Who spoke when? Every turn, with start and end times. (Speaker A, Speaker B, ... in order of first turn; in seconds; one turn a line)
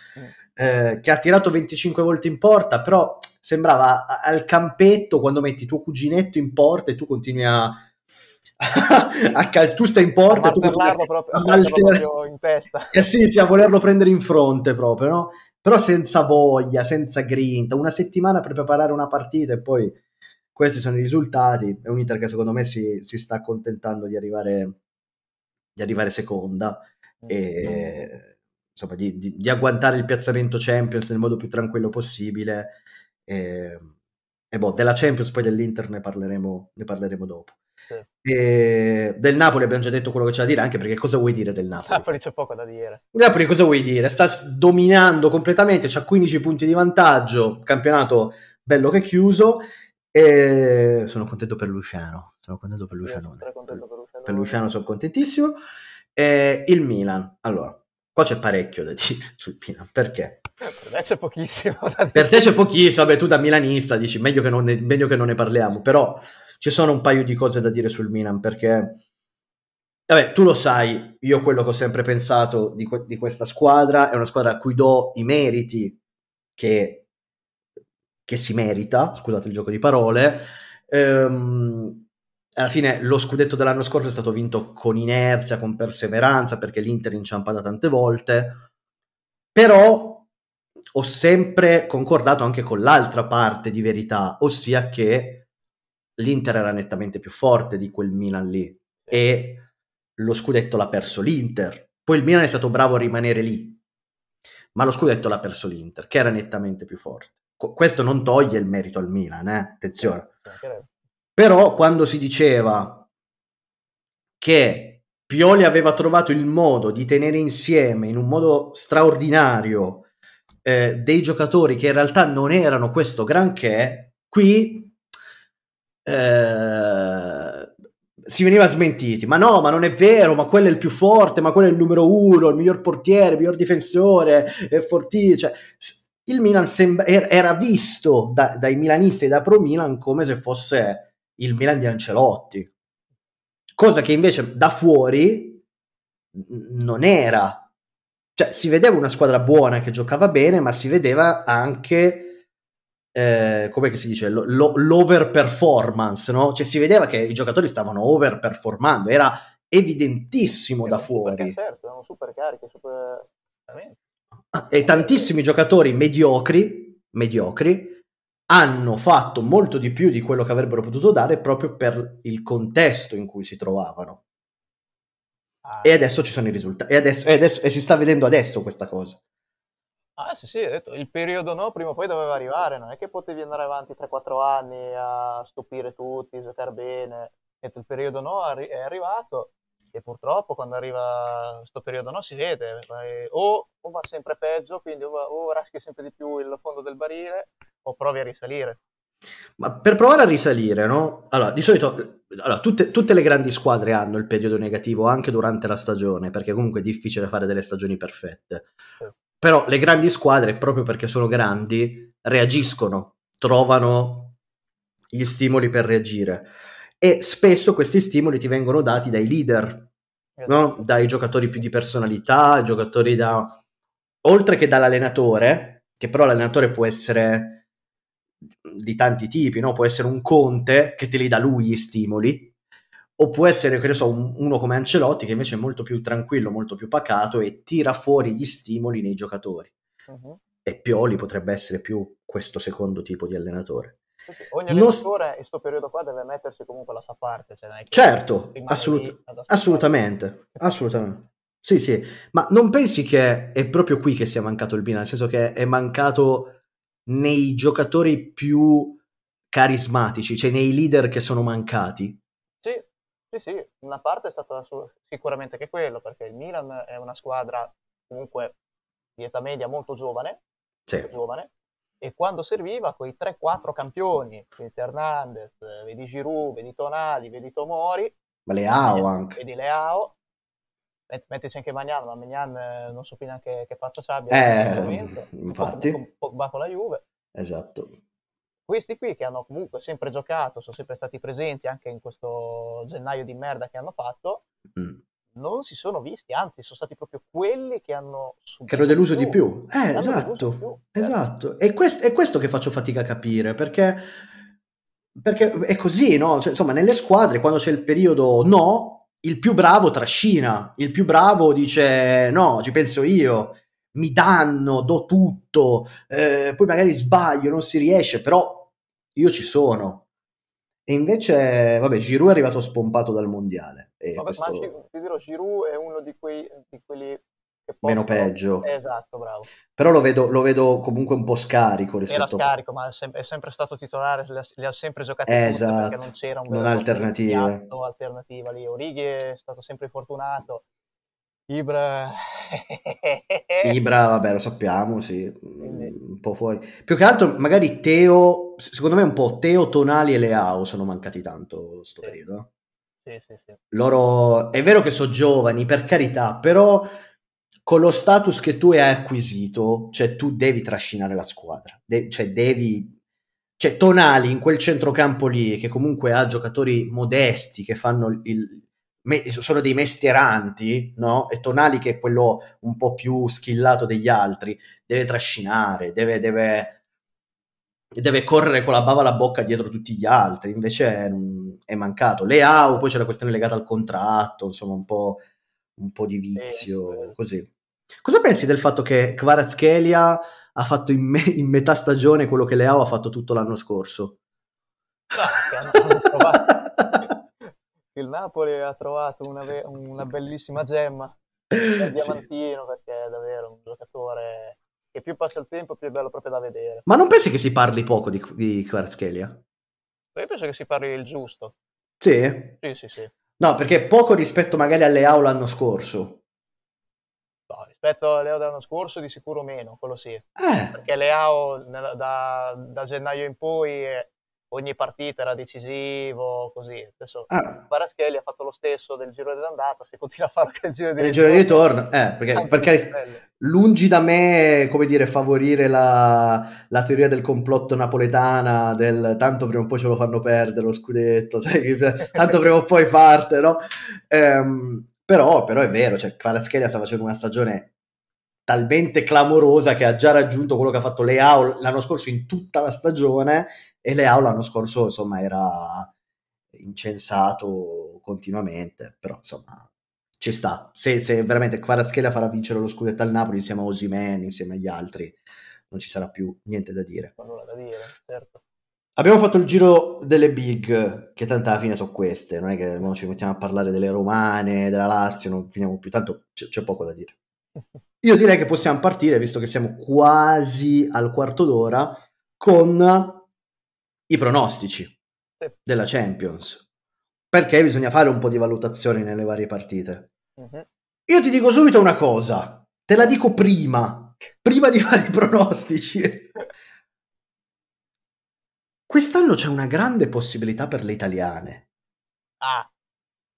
Speaker A: 0.6-7.8
Speaker A: 8.6-12.1
Speaker B: 10.3-13.1
Speaker A: 12.9-20.0
Speaker A: 20.5-24.8
Speaker A: 25.8-33.9
Speaker B: 27.2-28.1
Speaker A: 34.5-37.5
Speaker A: 38.2-42.1
Speaker B: 41.8-43.0
Speaker A: 43.1-55.6
Speaker B: 53.0-54.7
Speaker A: 56.1-60.4
Speaker B: 60.6-62.5
Speaker A: 62.1-69.0
Speaker A: 70.1-76.0
Speaker A: 76.5-77.0
Speaker A: 78.3-82.0
Speaker A: 82.6-88.6
Speaker A: 89.5-90.2
Speaker A: 90.9-95.4
Speaker A: 96.2-99.6
Speaker A: 100.2-103.8
Speaker A: 104.7-110.3
Speaker B: 110.0-110.9
Speaker A: 111.3-113.0
Speaker A: 114.4-120.0
Speaker A: 120.6-124.9
Speaker A: 126.0-127.7
Speaker A: 128.2-142.7
Speaker A: 143.8-145.6
Speaker A: 146.3-147.7
Speaker A: 148.3-152.4
Speaker A: 153.1-161.6
Speaker B: 160.8-164.0
Speaker A: 164.5-174.2
Speaker B: 164.8-165.3
Speaker B: 175.6-176.0
Speaker A: 175.8-179.2
Speaker B: 180.2-198.8
Speaker A: 199.6-208.7
Speaker A: 209.4-214.3
Speaker A: 215.1-219.9
Speaker B: 220.4-221.1
Speaker A: 220.5-223.6
Speaker A: 224.2-227.6
Speaker A: 228.6-232.5
Speaker A: 233.2-239.7
Speaker B: 240.1-240.4
Speaker A: 240.6-244.0
Speaker B: 244.3-250.0
Speaker A: 244.7-245.1
Speaker A: 247.9-259.0
Speaker B: 250.5-250.8
Speaker A: 259.5-262.2
Speaker B: 262.6-268.5
Speaker B: 269.2-270.4
Speaker B: 271.0-271.5
Speaker B: 272.0-278.1
Speaker A: 278.4-279.4
Speaker B: 278.8-280.1
Speaker B: 281.1-287.0
Speaker A: 284.3-286.0
Speaker A: 287.3-288.0
Speaker B: 288.7-294.4
Speaker A: 294.7-295.0
Speaker B: 295.3-301.1
Speaker A: 298.7-304.1
Speaker A: 305.1-320.0
Speaker A: 320.9-324.7
Speaker B: 324.1-329.5
Speaker A: 327.8-328.7
Speaker A: 329.7-332.5
Speaker B: 332.1-340.6
Speaker A: 335.3-337.7
Speaker B: 341.5-343.7
Speaker A: 343.6-352.5
Speaker B: 345.6-345.9
Speaker B: 353.1-353.6
Speaker A: 353.7-356.9
Speaker A: 357.6-362.9
Speaker A: 363.6-376.8
Speaker A: 377.9-385.2
Speaker A: 385.8-387.5
Speaker B: 386.4-387.1
Speaker A: 388.0-394.2
Speaker B: 395.1-396.6
Speaker A: 395.7-397.1
Speaker B: 397.9-401.2
Speaker A: 401.5-402.2
Speaker B: 401.7-406.9
Speaker A: 406.9-409.4
Speaker B: 410.1-411.5
Speaker A: 412.0-412.6
Speaker B: 412.6-413.1
Speaker A: 413.4-416.2
Speaker B: 417.5-431.7
Speaker A: 420.4-420.7
Speaker A: 427.3-427.6
Speaker A: 431.0-447.7
Speaker B: 432.3-433.2
Speaker A: 448.5-455.9
Speaker A: 456.5-459.6
Speaker A: 460.2-465.2
Speaker A: 465.7-467.1
Speaker B: 467.2-468.4
Speaker A: 468.9-477.1
Speaker A: 478.0-483.2
Speaker A: 484.1-484.9
Speaker A: 485.6-486.6
Speaker A: 487.3-490.1
Speaker B: 490.4-490.6
Speaker A: 491.1-496.3
Speaker A: 498.9-501.6
Speaker B: 502.4-502.7